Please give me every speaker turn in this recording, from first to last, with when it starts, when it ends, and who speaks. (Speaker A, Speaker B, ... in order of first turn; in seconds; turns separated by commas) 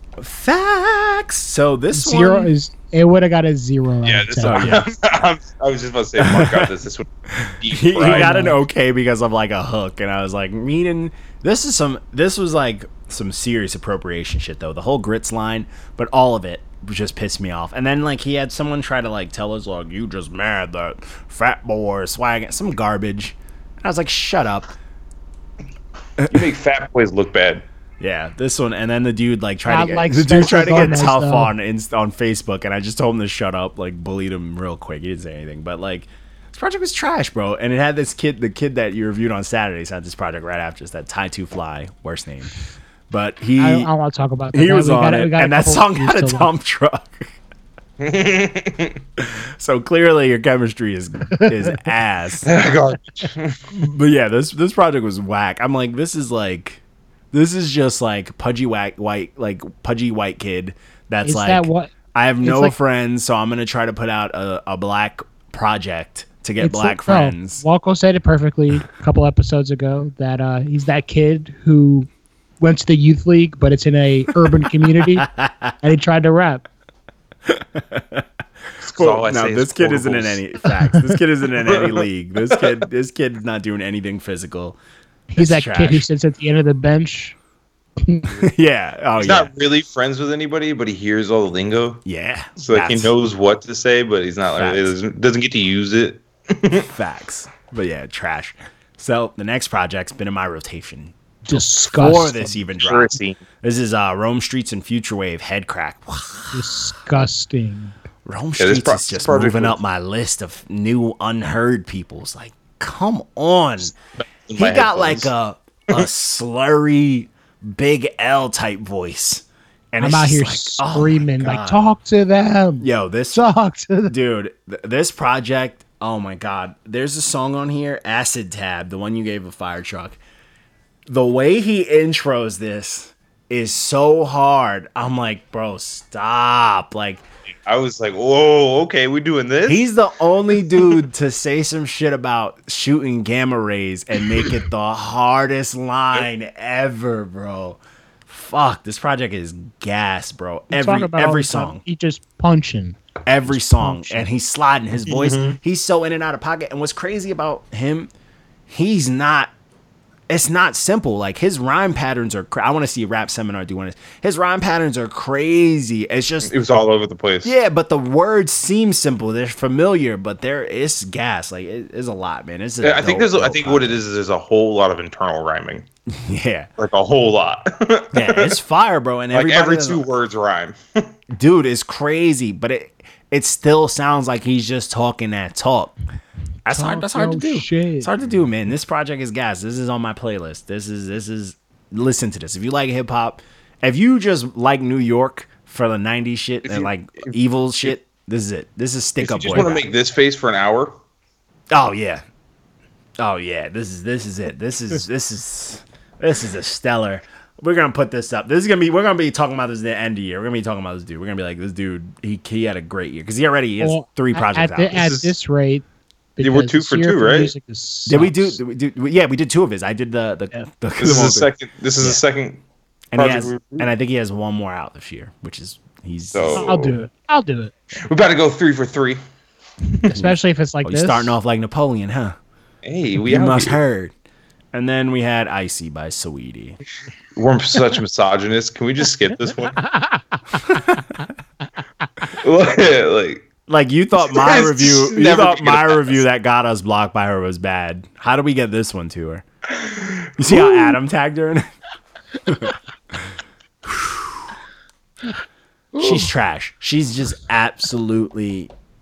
Speaker A: 0.2-2.5, Speaker B: 1.9-4.8, Speaker C: 4.0-7.1, Speaker A: 4.4-4.9, Speaker A: 6.2-6.7, Speaker A: 7.3-24.7, Speaker C: 7.6-8.3, Speaker B: 8.0-8.6, Speaker C: 26.2-27.6, Speaker A: 28.0-42.5, Speaker B: 29.6-31.5, Speaker A: 43.1-43.9, Speaker B: 43.6-46.5, Speaker A: 44.5-47.3, Speaker C: 48.0-49.0, Speaker A: 49.2-52.5, Speaker C: 52.4-53.6, Speaker A: 53.7-56.8, Speaker A: 57.3-67.6, Speaker B: 61.2-62.7, Speaker B: 66.6-72.1, Speaker B: 72.6-75.3, Speaker A: 74.6-75.7, Speaker B: 75.8-76.7, Speaker A: 77.5-78.2, Speaker A: 78.8-84.8, Speaker C: 78.8-80.4, Speaker C: 81.5-82.7, Speaker B: 85.3-87.3, Speaker A: 85.4-86.0, Speaker B: 88.0-88.3, Speaker A: 88.3-89.5, Speaker C: 89.2-92.0, Speaker A: 92.0-93.1, Speaker C: 92.6-96.9, Speaker A: 94.5-95.0, Speaker A: 96.8-106.8, Speaker B: 101.5-102.6, Speaker C: 102.8-103.4, Speaker B: 106.5-107.9, Speaker A: 108.2-113.9, Speaker C: 108.6-109.8, Speaker C: 114.4-115.3, Speaker A: 114.5-121.8, Speaker B: 120.0-124.1, Speaker A: 122.8-123.5, Speaker A: 124.1-130.2, Speaker A: 131.1-137.2, Speaker C: 137.6-139.8, Speaker A: 139.6-151.8, Speaker B: 150.7-154.2, Speaker A: 153.2-158.1, Speaker C: 155.1-155.6, Speaker A: 158.7-159.5, Speaker A: 160.3-166.6, Speaker C: 166.4-167.5, Speaker A: 167.4-174.0, Speaker C: 172.8-175.8, Speaker A: 176.1-176.7, Speaker C: 176.8-178.6, Speaker A: 178.1-180.0, Speaker C: 179.3-181.1, Speaker A: 181.3-185.9, Speaker A: 186.6-199.8, Speaker B: 186.7-188.1, Speaker C: 196.7-197.3, Speaker C: 199.2-201.0, Speaker A: 201.7-202.2, Speaker A: 203.2-215.1, Speaker B: 213.8-215.8, Speaker C: 214.9-215.3, Speaker B: 216.4-218.6, Speaker C: 216.4-217.5, Speaker A: 218.1-222.2, Speaker C: 221.0-222.6, Speaker A: 223.1-226.7, Speaker C: 223.1-223.9, Speaker C: 226.3-226.9, Speaker B: 226.5-227.7, Speaker C: 227.9-229.2, Speaker B: 230.0-231.3, Speaker A: 230.1-232.3, Speaker C: 232.8-233.8, Speaker A: 233.2-234.1, Speaker A: 234.7-236.8, Speaker C: 237.3-239.8, Speaker B: 239.8-241.0, Speaker C: 242.4-243.4, Speaker A: 243.7-249.4, Speaker C: 244.3-246.2, Speaker C: 249.7-250.3, Speaker A: 250.4-251.7, Speaker A: 252.4-253.2, Speaker A: 253.8-254.5, Speaker A: 255.9-258.7